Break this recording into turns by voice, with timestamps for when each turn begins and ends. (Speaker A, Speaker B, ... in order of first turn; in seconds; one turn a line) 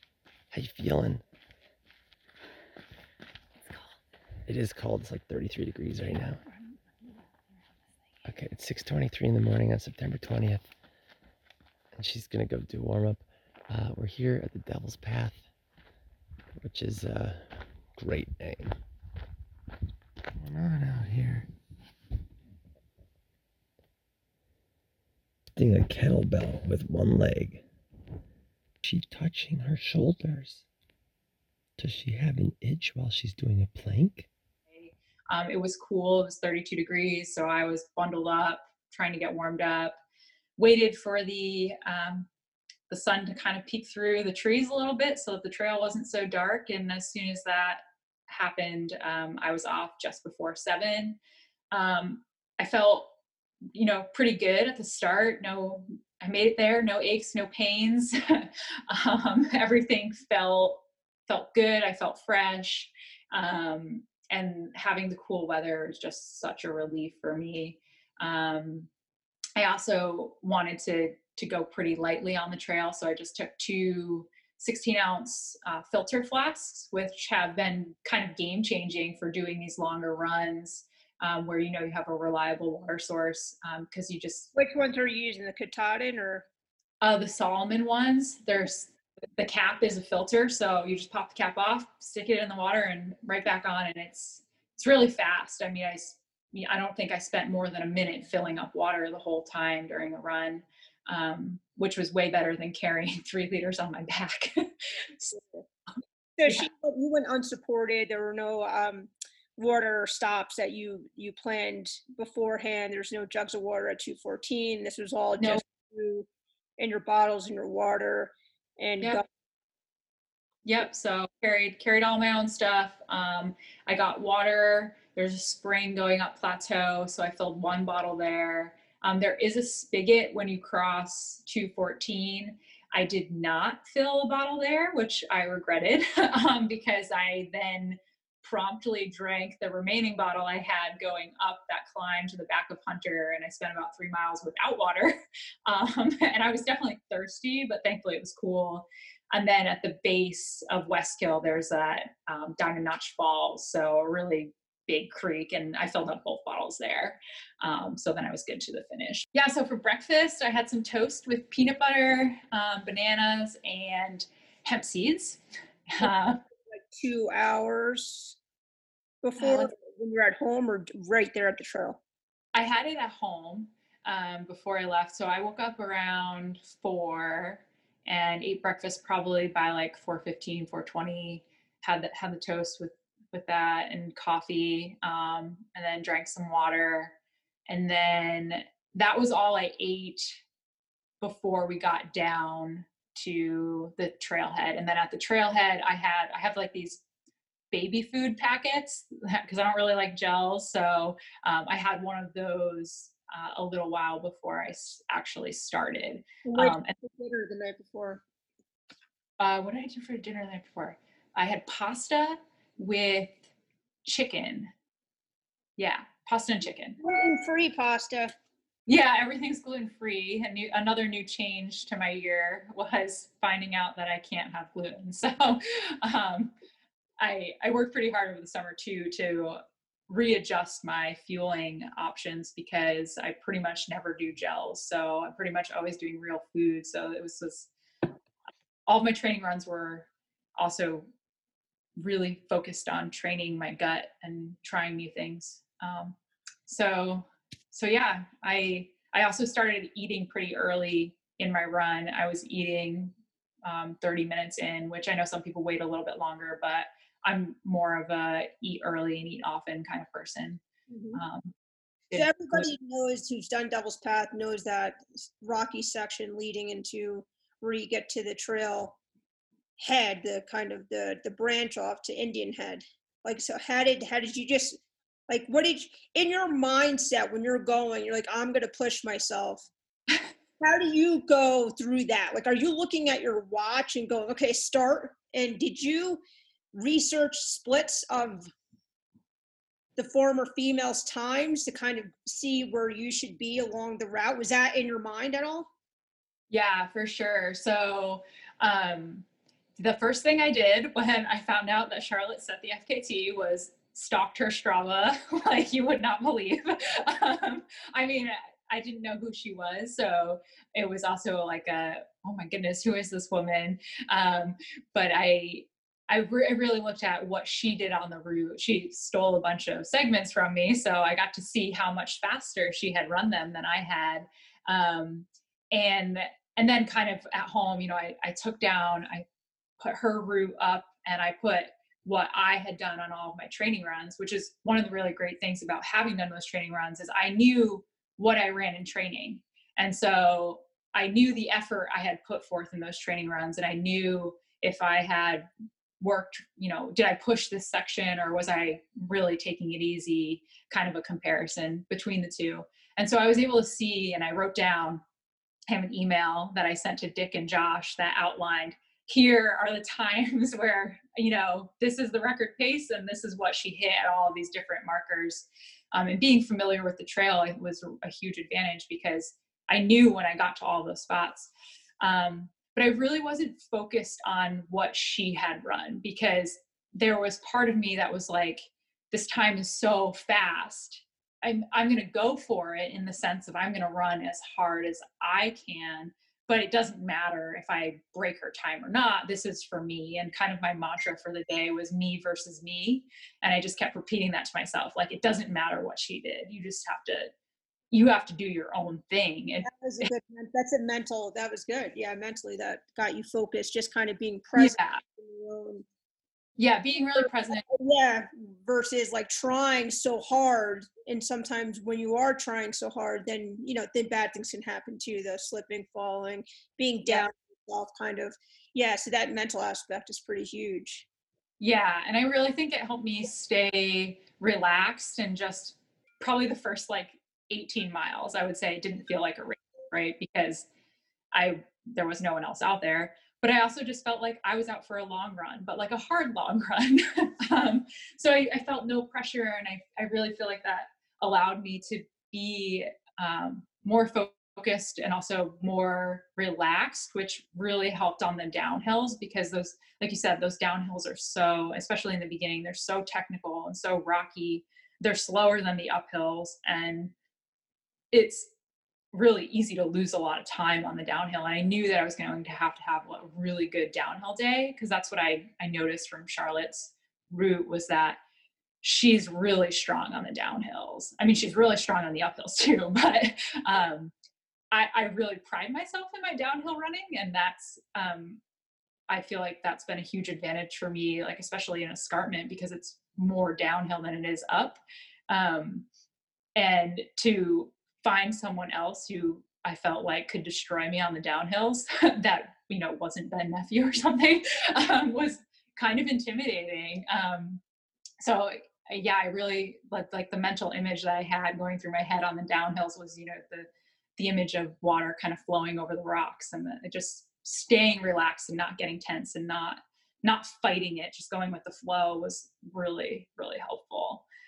Speaker A: 0.5-1.2
Speaker A: 4.5-6.4
Speaker A: 8.2-10.7
Speaker A: 11.9-15.4
Speaker A: 16.6-18.8
Speaker A: 20.4-21.5
Speaker A: 25.6-27.6
Speaker A: 28.8-30.6
Speaker A: 31.8-34.3
Speaker B: 34.7-40.0
Speaker B: 40.6-42.3
Speaker B: 42.9-51.2
Speaker B: 51.7-53.1
Speaker B: 53.7-68.9
Speaker B: 69.6-84.5
Speaker C: 84.5-86.5
Speaker B: 87.0-105.4
Speaker C: 105.3-105.6
Speaker C: 106.4-116.3
Speaker C: 116.8-119.2
Speaker B: 120.7-145.2
Speaker B: 145.7-166.4
Speaker C: 166.0-168.4
Speaker C: 169.2-172.0
Speaker B: 169.4-169.7
Speaker B: 172.5-187.1
Speaker B: 187.7-190.4
Speaker B: 191.2-197.0
Speaker B: 197.7-206.9
Speaker C: 206.4-208.2
Speaker B: 209.4-213.5
Speaker B: 214.1-214.7
Speaker B: 215.8-217.0
Speaker C: 217.0-218.3
Speaker B: 218.9-226.5
Speaker B: 227.2-237.7
Speaker B: 238.9-241.1
Speaker B: 242.0-246.2
Speaker B: 246.7-260.6
Speaker C: 260.9-261.2
Speaker B: 261.1-261.5
Speaker B: 262.1-262.7
Speaker C: 262.1-269.0
Speaker C: 269.8-279.7
Speaker C: 280.6-286.2
Speaker C: 286.7-288.5
Speaker C: 290.0-295.7
Speaker B: 296.5-299.2
Speaker B: 299.8-329.2
Speaker B: 329.8-345.5
Speaker B: 346.0-355.0
Speaker B: 355.7-371.5
Speaker B: 372.0-397.3
Speaker B: 397.9-400.1
Speaker C: 399.6-405.9
Speaker B: 404.6-405.0
Speaker B: 406.6-407.6
Speaker C: 407.1-421.1
Speaker B: 421.6-430.7
Speaker B: 431.3-457.1
Speaker B: 458.1-458.5
Speaker B: 459.1-468.2
Speaker B: 468.8-474.1
Speaker B: 474.7-478.4
Speaker B: 479.1-485.9
Speaker B: 486.6-497.6
Speaker B: 498.2-514.2